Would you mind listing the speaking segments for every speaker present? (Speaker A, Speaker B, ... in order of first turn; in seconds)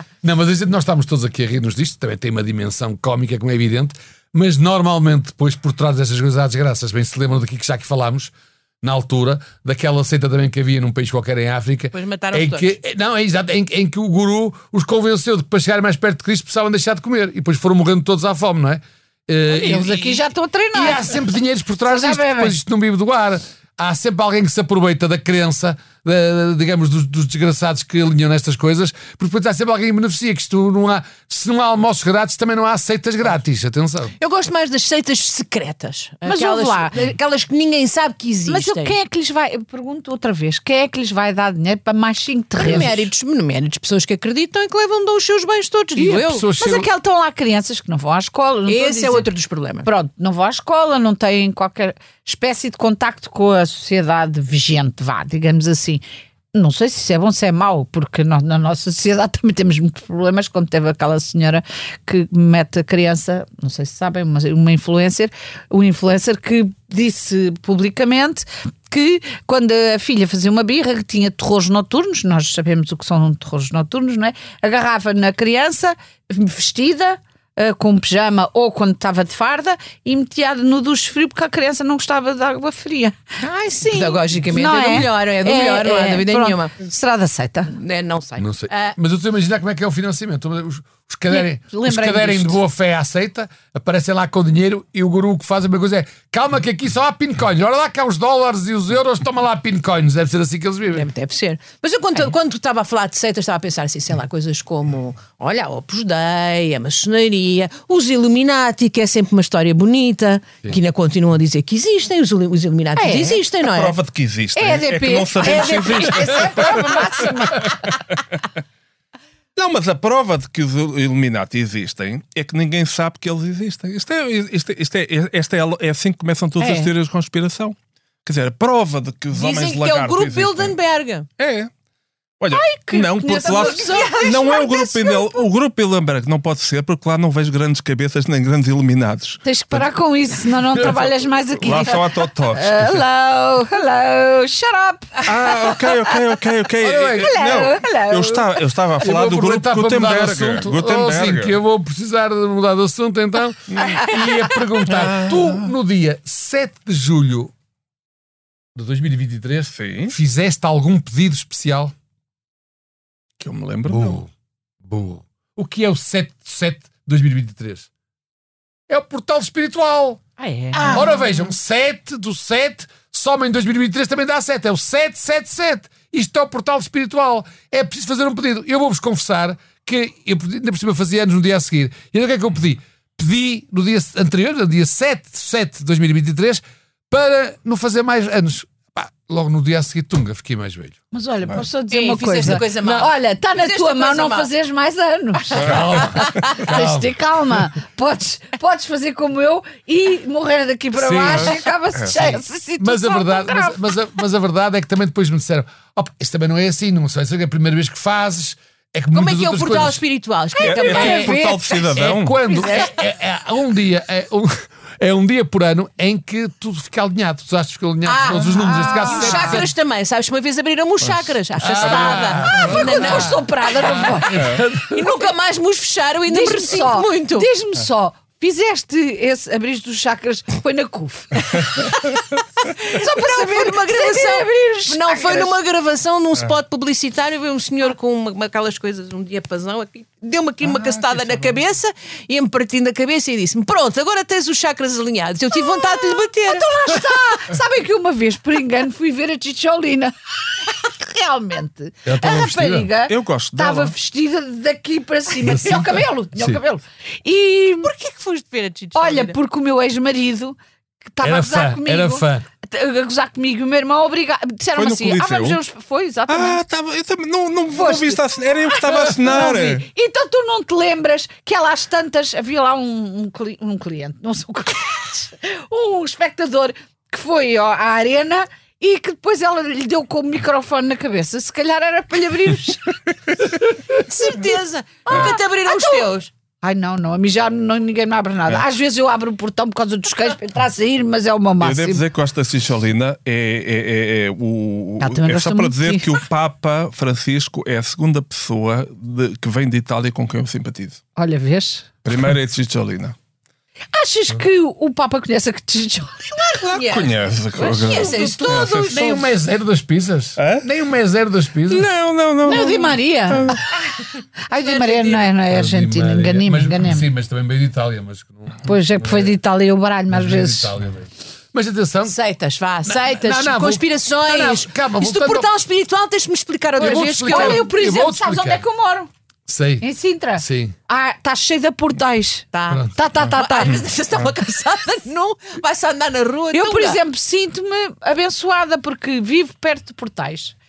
Speaker A: 0.2-34.1, 46.2-46.9, 88.4-101.1, 146.8-147.4, 149.0-157.5, 158.7-161.9, 163.9-164.3, 164.8-167.9, 168.9-170.2, 170.8-191.0, 195.6-197.1, 200.9-201.6, 202.8-210.0, 210.9-219.7, 221.6-225.1, 252.0-252.9, 255.4-256.6, 261.2-262.4, 308.9-311.9, 315.5-319.4, 320.1-322.2, 322.9-325.5, 326.8-328.6, 329.5-329.9, 330.4-330.7, 332.7-333.0
Speaker B: 11.9-12.7, 34.2-38.9, 42.5-46.5, 48.7-49.9, 83.4-86.7, 87.7-89.0, 100.9-114.0, 115.6-116.1, 129.3-131.3, 133.3-134.5, 170.7-171.0, 191.9-194.5, 196.2-196.6, 209.1-211.4, 218.0-227.5, 232.8-247.1, 257.8-259.4, 283.9-286.3, 306.6-309.2, 314.5-315.3, 322.1-327.7, 332.5-337.0
Speaker C: 19.4-21.1, 21.9-22.6, 36.2-37.1, 38.5-43.1, 46.0-49.3, 49.8-56.0, 56.5-83.2, 83.8-87.7, 91.3-92.6, 113.0-113.4, 114.5-117.8, 126.6-126.9, 132.5-135.4, 139.4-146.0, 147.1-148.6, 170.4-171.1, 191.1-195.8, 196.5-203.9, 210.6-213.0, 218.3-219.7, 221.7-224.4, 226.3-235.5, 246.0-257.9, 258.9-260.6, 261.1-266.6, 267.7-283.0, 285.1-286.1, 286.6-292.0, 295.0-296.2, 301.1-301.9, 303.9-306.8, 312.4-313.7, 314.5-317.0, 318.6-320.7, 326.8-329.1, 329.8-333.8, 336.5-340.5
Speaker D: 113.6-117.0, 119.5-130.8, 131.4-131.7, 132.4-139.9, 141.6-143.0, 145.2-151.6, 153.7-154.1, 154.8-155.7, 159.7-160.2, 163.4-164.2, 195.6-195.8, 201.2-202.4, 210.6-212.4, 224.3-224.6, 253.1-253.9, 264.8-265.6, 266.3-269.9, 291.6-301.0, 302.0-303.1, 306.7-309.2, 310.4-310.7, 311.7-313.6